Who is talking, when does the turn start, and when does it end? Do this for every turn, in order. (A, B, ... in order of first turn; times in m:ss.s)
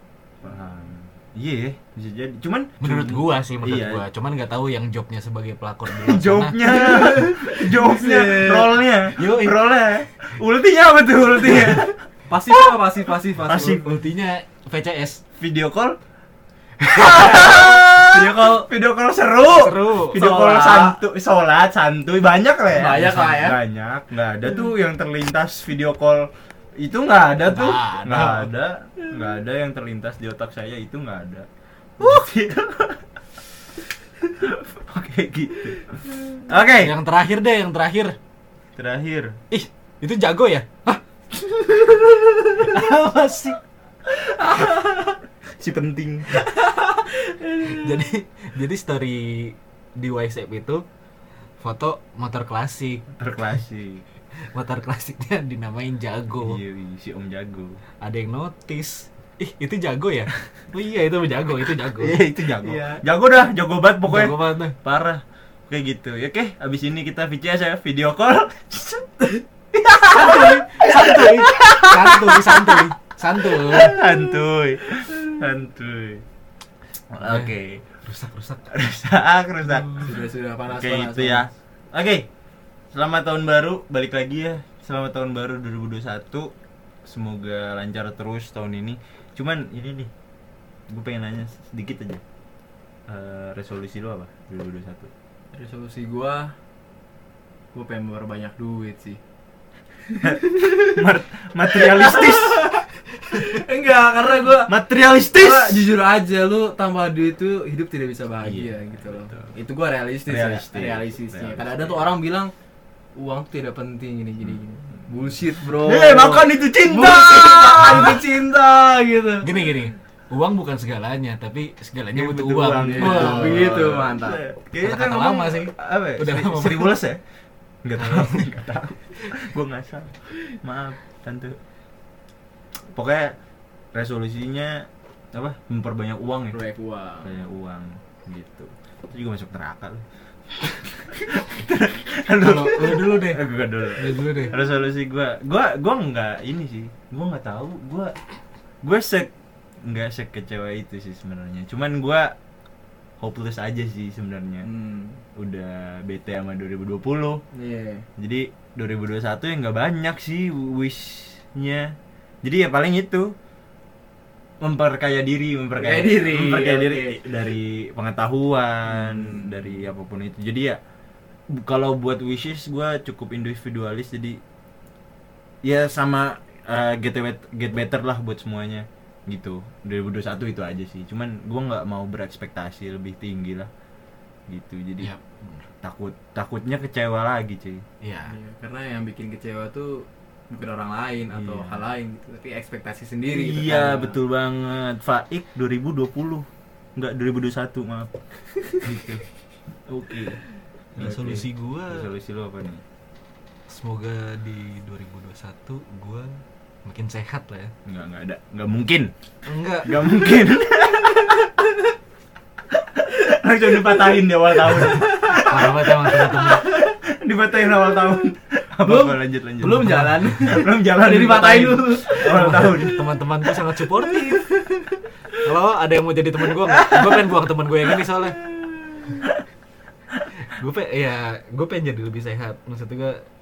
0:00.4-0:04.0 A
0:02.8-0:07.8 B
0:05.9-0:11.9 A
0:07.7-0:08.7 C
0:09.2-0:09.7 B
0:11.5-0:13.8 C
0:13.4-0:14.0 A
0:13.5-0:15.2 B
0:15.4-0:16.0 A
0:16.8-0:31.5 A
0:16.9-0:17.7 B
0:17.3-0:18.7 C
0:19.4-0:20.3 B
0:20.1-0:21.0 C
0:22.7-0:23.6 C
0:22.9-0:23.5 B
0:27.4-0:28.5 B
0:32.0-0:33.0 A
0:34.4-0:36.9 A
0:36.8-0:38.2 B
0:38.8-0:39.4 A
0:39.5-0:41.0 B
0:42.6-0:43.6 B
0:44.3-0:45.2 C
0:45.6-0:46.4 A
0:46.3-0:48.1 C
0:47.6-0:50.8 B
0:51.6-0:53.0 B
0:53.2-0:54.0 A
0:54.4-0:56.6 B
0:56.4-0:57.8 A
0:58.0-1:02.2 B
1:02.0-1:09.1 A
1:02.6-1:03.0 C
1:04.0-1:04.8 B
1:09.7-1:16.2 A
1:10.1-1:14.0 B
1:17.1-1:18.0 A
1:17.2-1:18.7 B
1:18.7-1:22.3 A
1:19.7-1:20.0 B
1:20.0-1:21.5 C
1:22.9-1:26.5 A
1:27.0-1:30.1 A
1:30.9-1:32.2 A
1:33.1-1:35.1 A
1:35.5-1:36.5 C
1:37.7-1:39.2 C
1:40.1-1:41.0 C
1:40.2-1:42.7 A
1:41.7-1:44.7 C
1:44.6-1:45.9 A
1:45.3-1:52.5 C
1:48.4-1:49.5 A
1:50.3-1:52.1 A
1:53.2-1:59.7 C
1:55.6-1:58.2 A
1:59.4-2:03.8 B
2:02.1-2:07.2 A
2:02.8-2:04.4 C
2:04.8-2:07.0 B
2:07.8-2:11.6 A
2:08.0-2:08.6 B
2:12.9-2:13.4 A
2:13.9-2:16.6 A
2:16.5-2:17.4 C
2:17.2-2:28.2 A
2:22.4-2:24.6 B
2:28.8-2:29.3 A
2:29.8-2:32.3 A
2:33.2-2:34.7 A
2:34.6-2:35.2 C
2:35.3-2:37.4 A
2:37.5-2:38.0 C
2:38.2-2:43.3 A
2:44.6-2:50.8 A
2:45.8-2:47.2 C
2:48.9-2:49.8 C
2:51.5-2:54.4 A
2:55.6-3:03.7 A
3:04.5-3:05.1 A
3:05.0-3:05.6 B
3:05.8-3:07.8 A
3:08.0-3:08.3 B
3:08.2-3:14.2 C
3:11.3-3:11.8 A
3:13.3-3:18.1 A
3:18.8-3:19.2 A
3:19.9-3:20.4 A
3:21.0-3:22.1 B
3:21.0-3:22.8 A
3:23.7-3:27.7 B
3:27.8-3:29.1 A
3:29.4-3:29.9 B
3:29.8-3:31.5 A
3:32.8-3:43.0 A
3:34.7-3:36.7 B
3:35.0-3:35.5 C
3:36.6-3:36.9 C
3:38.8-3:42.6 C
3:39.6-3:40.6 B
3:42.0-3:48.4 B
3:46.6-3:47.3 A
3:48.0-3:49.4 A
3:50.4-3:53.2 B